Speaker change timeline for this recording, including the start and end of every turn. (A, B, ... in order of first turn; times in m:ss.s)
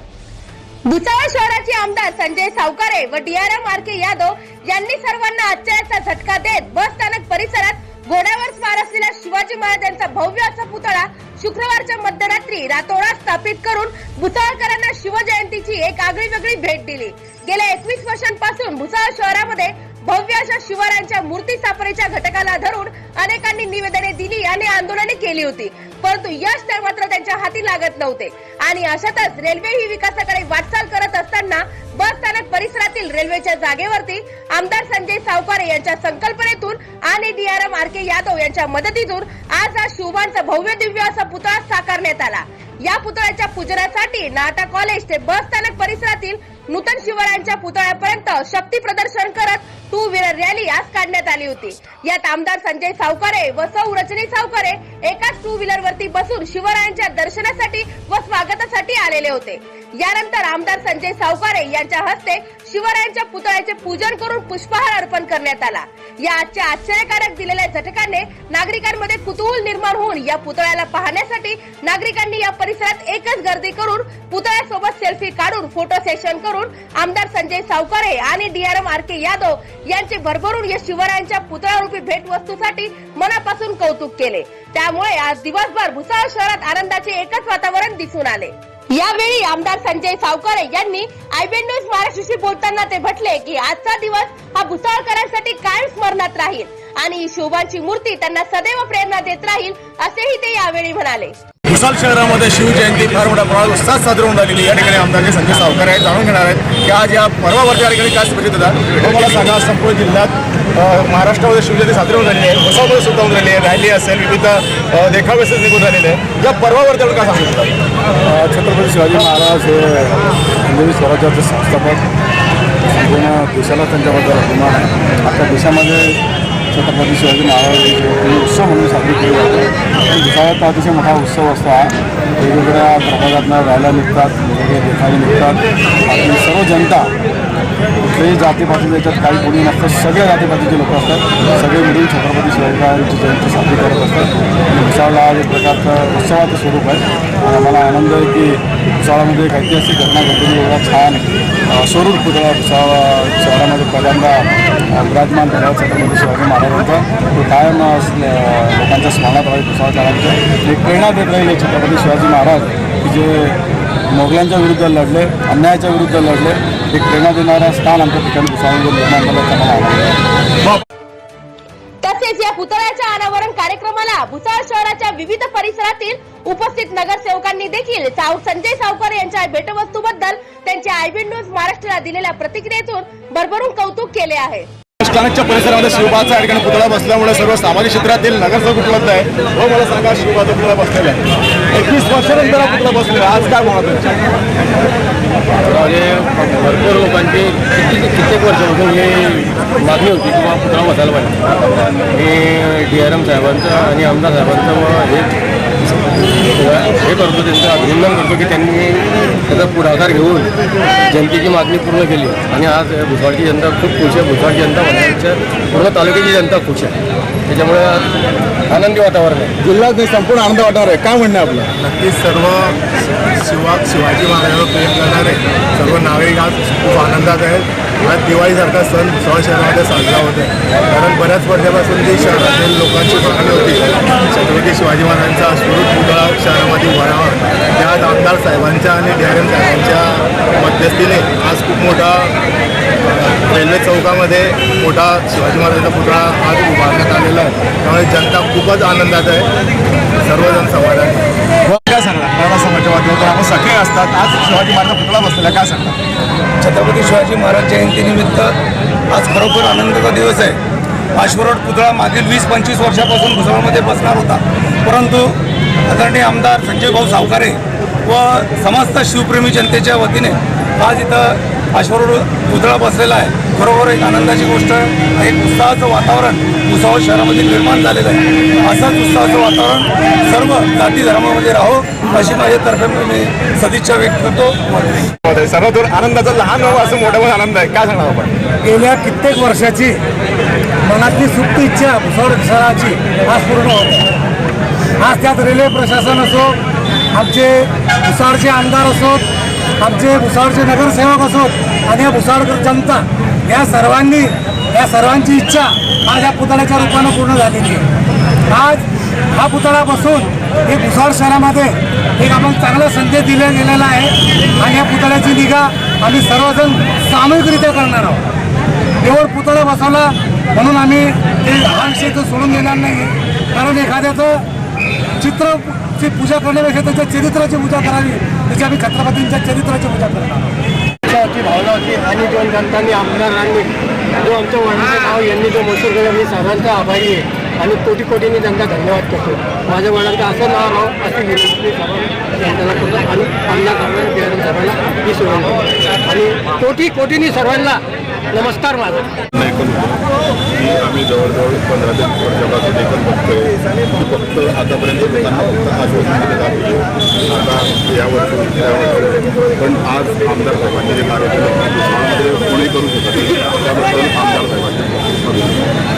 0:00.9-1:41.4 A
1:41.7-1:57.7 B
1:58.2-2:02.1 C
2:02.9-2:06.2 C
2:06.7-2:17.1 C
2:18.1-2:43.6 C
2:44.1-2:50.2 C
2:52.0-3:04.7 A
3:05.0-3:14.1 B
3:15.6-3:25.4 D
3:26.6-3:30.5 D
3:31.1-3:37.0 D
3:37.5-3:39.5 D
3:39.6-3:41.7 B
3:41.8-4:02.3 E
4:03.2-4:09.5 E
4:10.2-4:11.2 E
4:11.7-4:16.0 B
4:16.6-4:18.5 F
4:19.1-4:20.6 F
4:21.2-4:44.6 F
4:45.2-4:48.3 B
4:48.6-4:50.0 G
4:50.8-4:54.0 G
4:55.0-4:56.6 G
4:57.2-4:59.2 G
4:59.8-5:07.9 G
5:08.5-5:18.2 G
5:19.0-5:24.4 G
5:25.2-5:30.5 G
5:31.1-5:33.7 H
5:34.2-5:47.8 H
5:48.3-5:49.1 H
5:49.4-5:50.0 B
5:50.6-6:05.6 B